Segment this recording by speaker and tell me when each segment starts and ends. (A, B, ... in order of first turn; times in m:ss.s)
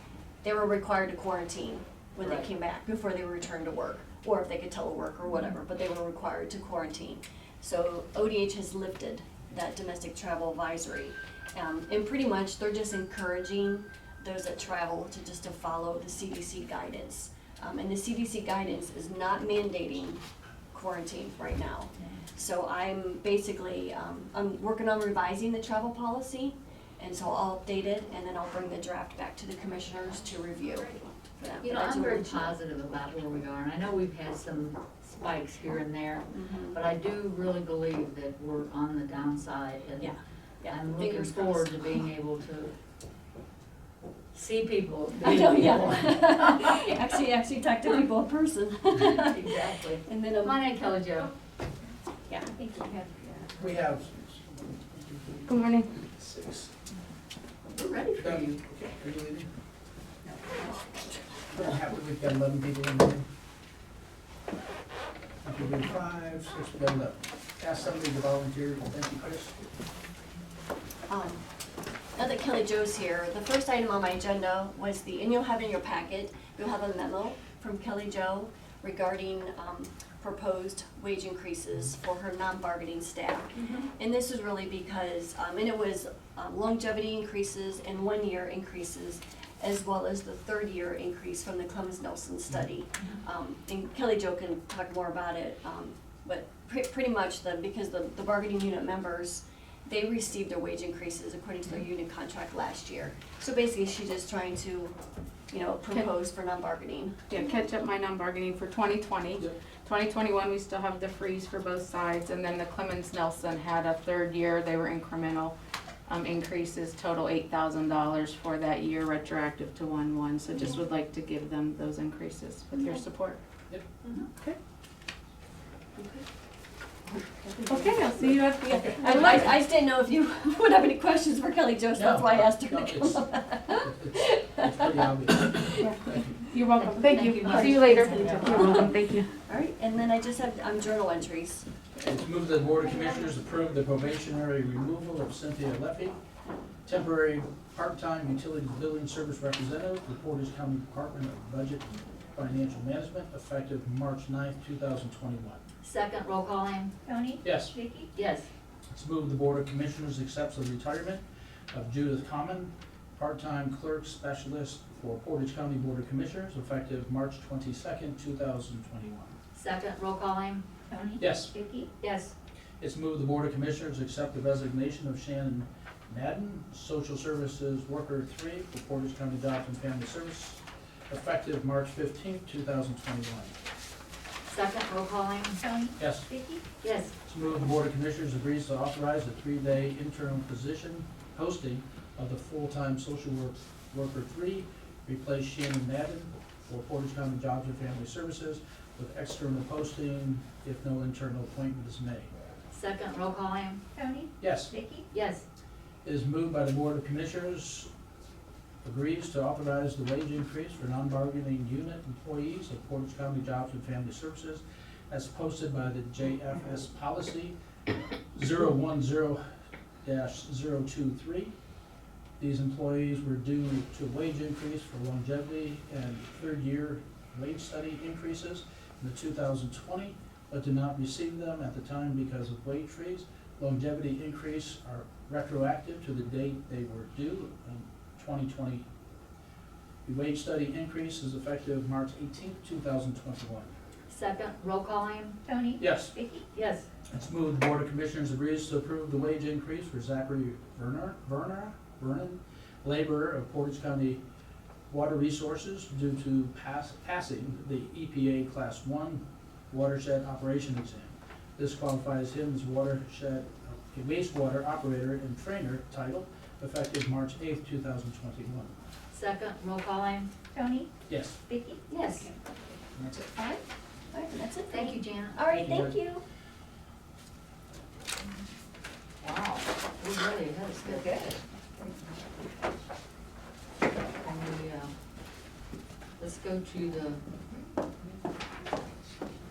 0:00.4-0:32.6 A
0:02.2-0:02.5 B
0:31.6-0:40.2 B
0:36.3-0:36.8 A
0:40.0-0:42.1 A
0:40.7-0:42.7 B
0:44.3-0:46.8 B
0:45.2-0:50.6 A
0:48.9-0:51.3 B
0:52.5-0:53.2 C
0:53.6-0:56.7 D
0:55.5-0:55.9 E
0:57.7-0:58.6 B
0:58.2-0:59.5 D
1:00.3-1:01.2 A
1:01.5-1:03.3 D
1:05.4-1:09.6 D
1:11.1-1:11.4 A
1:12.2-1:45.0 A
1:45.5-1:47.2 A
1:47.3-1:55.5 E
1:56.1-2:03.4 E
2:04.0-2:04.3 B
2:07.1-2:15.9 A
2:07.7-2:09.5 E
2:08.7-2:09.0 D
2:12.0-2:13.2 D
2:13.8-2:16.4 D
2:15.8-2:19.3 E
2:16.8-2:18.9 B
2:17.5-2:18.9 A
2:19.5-2:21.7 A
2:22.0-2:26.2 D
2:22.9-2:23.2 C
2:26.9-2:35.6 D
2:35.8-2:36.9 B
2:37.0-2:38.1 C
2:37.4-2:37.7 D
2:38.1-2:38.5 B
2:38.9-2:49.3 D
2:49.5-2:50.8 B
2:50.9-2:51.9 C
2:51.2-2:51.5 D
2:52.0-2:52.3 B
2:52.8-3:03.5 D
3:04.5-3:05.6 B
3:05.6-3:06.7 C
3:06.0-3:06.3 D
3:06.8-3:07.1 B
3:07.2-3:22.3 D
3:22.7-3:23.8 B
3:23.9-3:25.1 C
3:24.4-3:24.7 D
3:25.1-3:25.4 B
3:26.0-3:27.9 D
3:28.8-3:37.6 D
3:38.3-3:39.4 D
3:40.0-3:41.5 D
3:42.4-3:58.8 D
4:00.0-4:03.7 D
4:04.1-4:05.4 B
4:05.4-4:06.5 C
4:05.8-4:06.1 D
4:06.5-4:06.9 B
4:07.1-4:14.2 D
4:14.9-4:28.7 D
4:29.1-4:30.3 B
4:30.5-4:30.9 C
4:31.1-4:31.4 D
4:31.5-4:31.8 C
4:31.9-4:32.3 B
4:31.9-4:32.3 A
4:33.0-4:33.2 D
4:33.1-4:36.2 A
4:34.7-4:35.4 B
4:35.5-4:36.0 D
4:39.2-4:41.4 B
4:40.9-4:41.2 A
4:44.2-4:44.9 B
4:46.2-4:47.2 B